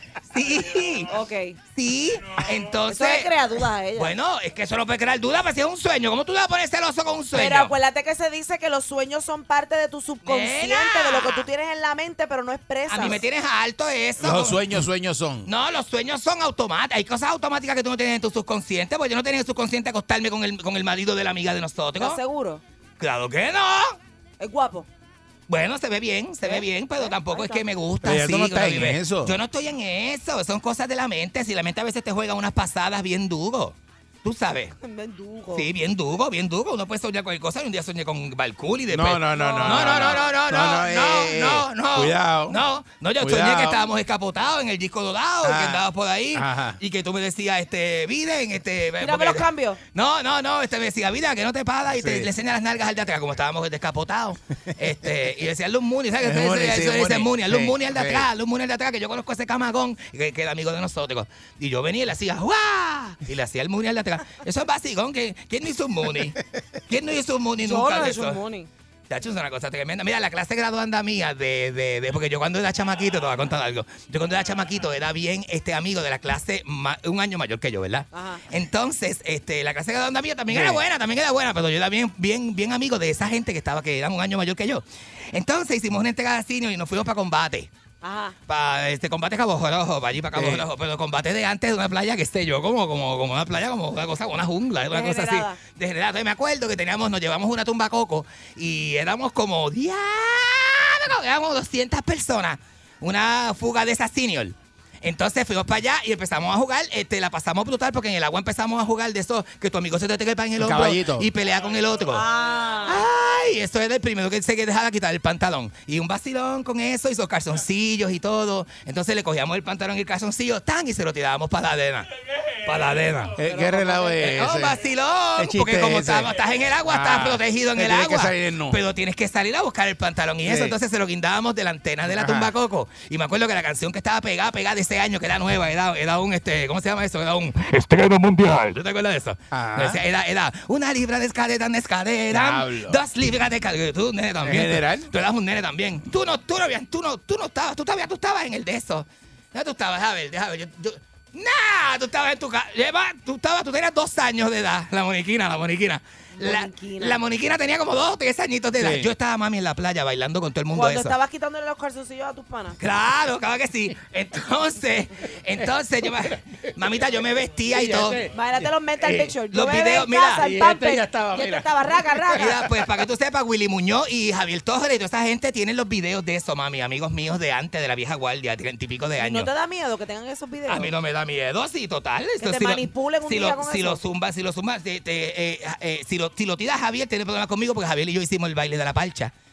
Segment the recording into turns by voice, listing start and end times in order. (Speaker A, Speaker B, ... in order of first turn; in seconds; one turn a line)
Speaker A: 0.3-1.1
Speaker B: 1.1-1.6
Speaker A: 1.7-3.3
Speaker B: 2.9-4.1
Speaker A: 4.0-7.7
Speaker B: 7.3-13.2
Speaker A: 10.2-11.5
Speaker A: 12.9-14.6
Speaker C: 14.2-15.5
Speaker A: 15.5-22.2
Speaker B: 22.0-22.6
Speaker A: 23.0-24.0
Speaker B: 24.4-24.9
Speaker A: 25.5-34.8
Speaker B: 26.4-27.6
Speaker C: 28.0-29.4
Speaker B: 34.8-35.7
Speaker A: 35.5-66.4
Speaker C: 38.9-42.6
Speaker B: 39.3-40.3
Speaker C: 43.2-43.8
Speaker C: 45.4-45.8
Speaker C: 46.3-46.8
Speaker B: 49.0-49.8
Speaker C: 51.9-52.3
Speaker C: 56.2-58.3
Speaker A: 66.9-68.4
Speaker B: 67.6-68.7
Speaker A: 69.1-87.7
Speaker B: 78.1-78.5
Speaker C: 80.5-80.8
Speaker B: 88.0-88.4
Speaker A: 88.5-112.2
Speaker C: 90.3-90.7
Speaker B: 94.9-95.6
Speaker C: 110.6-111.3
Speaker B: 112.1-113.0
Speaker A: 112.9-122.1
Speaker A: 122.7-123.3
Speaker C: 123.4-124.8
Speaker B: 123.4-124.3
Speaker A: 124.2-161.2
Speaker C: 125.4-126.3
Speaker C: 126.9-128.8
Speaker C: 130.4-130.8
Speaker C: 132.1-132.5
Speaker C: 139.5-140.0
Speaker C: 142.3-143.0
Speaker C: 144.4-145.1
Speaker B: 156.4-157.2
Speaker C: 158.8-159.1
Speaker B: 160.7-162.8
Speaker A: 162.8-168.2
Speaker C: 167.7-168.3
Speaker B: 168.3-172.5
Speaker A: 169.0-170.5
Speaker C: 170.4-172.7
Speaker A: 172.4-179.5
Speaker B: 179.2-180.9
Speaker A: 180.7-189.3
Speaker B: 182.4-184.0